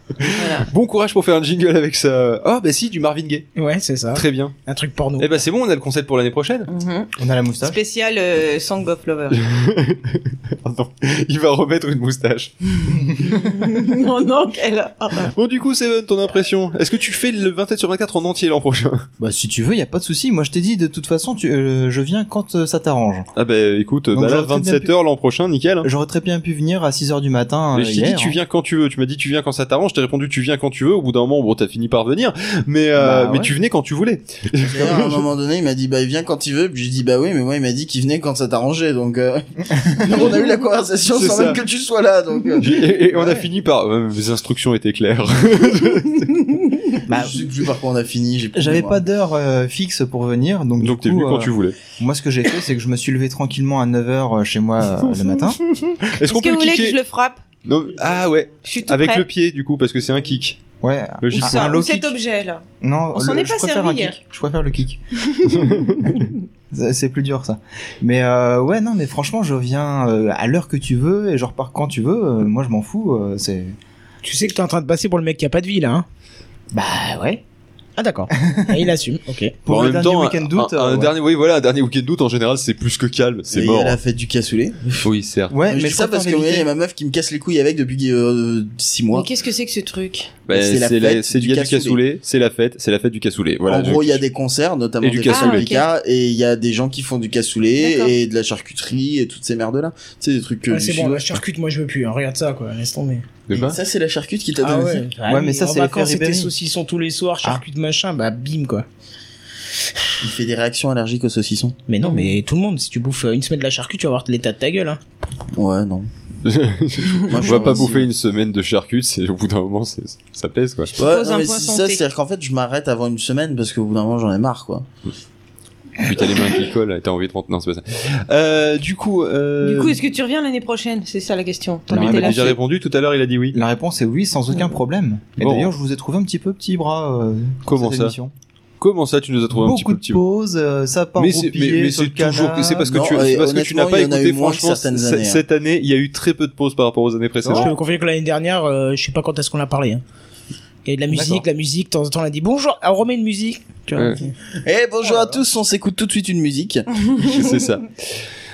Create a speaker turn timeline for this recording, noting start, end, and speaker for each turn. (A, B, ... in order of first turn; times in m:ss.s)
0:00.2-0:03.5 A
0:00.3-0:00.7 B
0:03.6-0:05.3 C
0:04.1-0:04.6 A
0:05.2-0:06.7 A
0:06.7-0:07.1 B
0:07.2-0:07.8 D
0:07.6-0:09.4 B
0:09.3-0:12.5 A
0:13.2-0:15.3 B
0:15.3-0:19.1 A
0:19.2-0:23.3 D
0:23.4-0:25.9 A
0:24.1-0:24.9 D
0:25.8-0:28.4 D
0:27.7-0:35.2 A
0:33.0-0:33.5 D
0:34.6-0:43.4 E
0:41.2-0:41.6 A
0:42.6-0:46.3 A
0:47.1-0:47.4 D
0:47.1-0:49.0 E
0:48.6-0:55.6 D
0:50.8-0:51.8 A
0:55.9-0:57.0 A
0:56.2-0:57.4 B
0:57.6-1:00.6 A
0:58.6-0:59.3 B
1:00.8-1:02.1 D
1:01.2-1:01.8 A
1:01.3-1:02.6 B
1:02.8-1:05.0 D
1:03.1-1:04.2 B
1:05.3-1:05.7 B
1:06.7-1:13.8 D
1:14.2-1:16.1 C
1:16.7-1:17.4 D
1:18.0-1:19.6 C
1:18.4-1:18.9 D
1:19.6-1:21.1 D
1:19.7-1:24.0 A
1:23.5-1:25.1 E
1:25.0-1:25.6 A
1:25.5-1:26.7 D
1:25.7-1:29.3 E
1:29.1-1:30.4 B
1:30.5-1:32.0 E
1:30.5-1:34.2 A
1:33.7-1:41.4 E
1:35.0-1:35.7 A
1:35.2-1:35.9 B
1:37.8-1:38.2 B
1:40.7-1:43.2 C
1:43.5-1:43.8 A
1:43.5-1:45.1 E
1:44.6-1:48.9 C
1:45.3-1:46.5 D
1:50.2-1:51.8 E
1:51.9-1:55.0 C
1:52.0-1:52.3 B
1:55.6-1:56.1 E
1:56.4-2:00.9 A
1:57.3-1:58.1 E
2:01.0-2:02.0 B
2:01.0-2:04.9 E
2:06.0-2:10.0 A
2:09.6-2:12.6 B
2:11.9-2:12.6 D
2:11.9-2:13.6 A
2:13.5-2:18.3 D
2:15.4-2:15.7 A
2:17.7-2:18.2 A
2:18.8-2:20.2 A
2:19.5-2:22.9 D
2:21.2-2:27.7 A
2:22.9-2:25.4 E
2:27.5-2:30.0 C
2:30.8-2:34.3 C
2:31.1-2:31.4 D
2:34.6-2:36.9 E
2:37.2-2:38.2 A